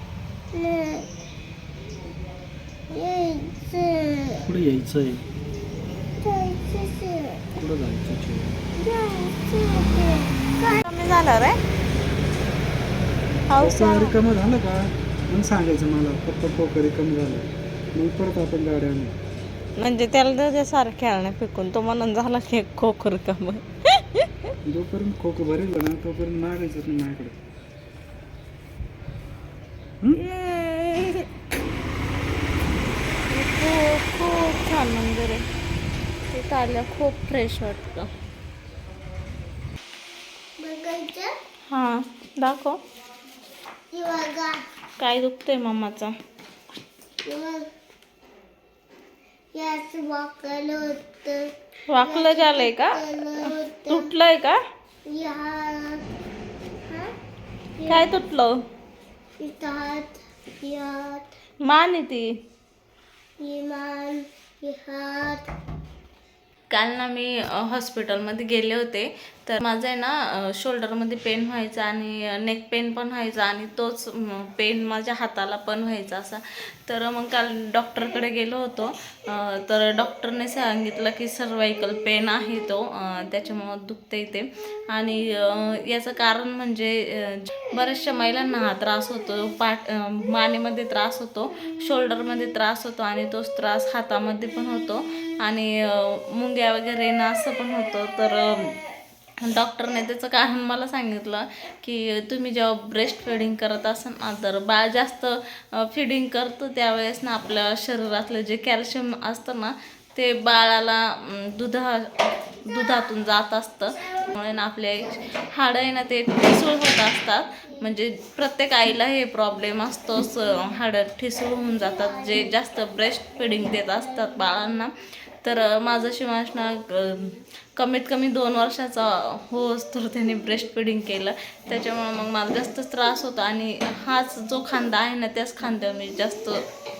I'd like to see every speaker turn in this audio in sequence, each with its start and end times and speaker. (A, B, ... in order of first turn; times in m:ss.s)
0:00.5-0:01.0 A
0:02.9-0:04.4 A
0:04.4-0:05.2 B
0:06.2-0:07.4 A
0:07.6-0:08.6 B
0:08.8-0:10.8 A
0:10.7-0:11.6 C
0:13.5-0:14.1 C
0:13.6-0:19.1 B
0:19.8-0:24.3 C
0:24.6-0:27.4 B
0:30.4-0:31.2 A
0:33.3-0:35.4 C
0:36.3-0:38.1 C
0:40.6-0:41.3 A
0:41.7-0:42.8 C
0:43.9-0:44.6 A
0:45.0-0:46.1 C
0:47.2-0:47.7 A
0:49.5-0:54.1 A
0:51.9-0:54.6 C
0:55.1-0:56.0 A
0:57.8-0:58.1 A
0:57.9-0:58.5 C
0:59.4-1:01.2 A
1:01.6-1:02.3 C
1:03.4-1:05.4 A
1:06.7-1:38.8 C
1:39.4-2:04.9 C
2:05.4-2:16.6 C